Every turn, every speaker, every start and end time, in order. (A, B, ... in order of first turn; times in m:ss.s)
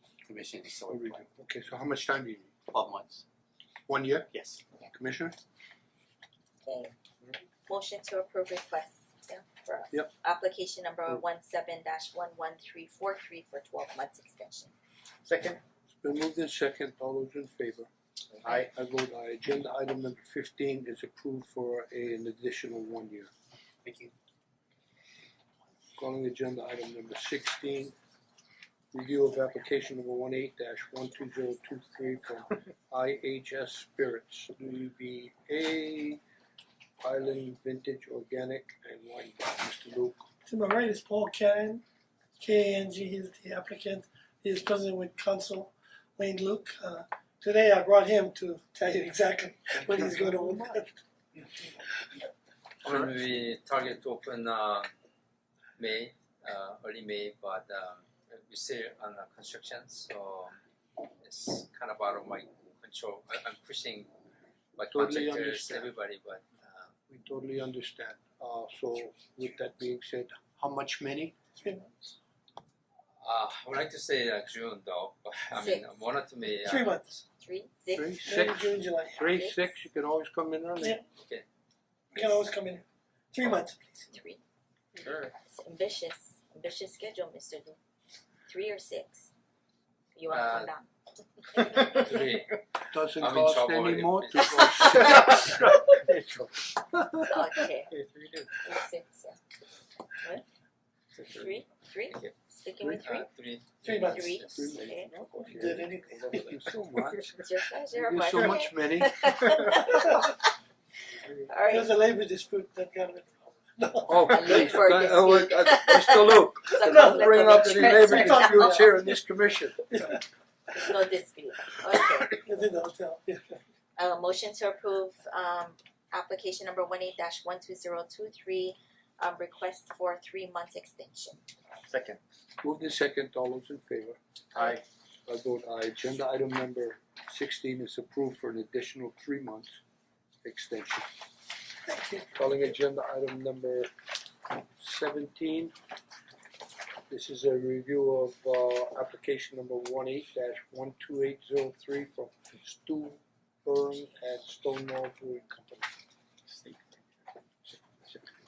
0:00.2-0:01.2 A
0:00.9-0:02.5 B
0:02.7-0:03.2 A
0:03.9-0:04.3 B
0:04.3-0:04.6 A
0:04.8-0:05.4 B
0:06.6-0:06.9 C
0:07.7-0:14.7 C
0:16.0-0:17.9 B
0:18.5-0:23.3 B
0:23.8-0:24.1 A
0:26.0-0:27.9 B
0:28.9-0:36.2 B
0:37.0-0:40.3 B
0:40.4-0:41.8 D
0:42.4-0:50.9 D
0:49.9-0:50.8 B
0:52.8-0:54.9 E
0:55.8-1:00.6 E
1:01.2-1:04.1 E
1:04.8-1:06.9 E
1:04.8-1:05.9 B
1:07.1-1:11.4 B
1:11.6-1:11.9 D
1:13.2-1:17.0 E
1:15.5-1:15.9 C
1:16.6-1:17.2 D
1:17.4-1:18.3 C
1:17.9-1:21.0 B
1:18.2-1:19.2 D
1:19.1-1:19.8 C
1:21.2-1:21.4 E
1:22.1-1:24.0 D
1:24.1-1:24.4 C
1:25.4-1:27.8 C
1:28.5-1:29.3 C
1:30.1-1:30.9 C
1:30.3-1:30.7 E
1:31.4-1:31.8 C
1:31.7-1:32.6 E
1:32.9-1:35.9 B
1:33.2-1:35.1 E
1:34.7-1:35.1 C
1:37.3-1:37.9 C
1:38.6-1:39.4 C
1:41.3-1:43.3 C
1:42.8-1:43.1 B
1:43.0-1:44.8 E
1:43.8-1:44.4 D
1:44.1-1:45.1 C
1:44.5-1:49.2 B
1:45.4-1:46.6 D
1:47.2-1:50.4 C
1:51.4-1:51.9 C
1:51.6-1:54.8 D
1:54.1-1:59.9 B
1:54.2-1:58.9 C
1:56.8-1:59.1 D
1:59.9-2:00.2 D
2:00.7-2:02.4 C
2:02.4-2:03.6 D
2:04.0-2:11.4 C
2:12.6-2:14.2 B
2:15.2-2:19.8 B
2:20.4-2:21.1 B
2:21.9-2:23.9 B
2:24.8-2:25.7 B
2:27.1-2:35.9 B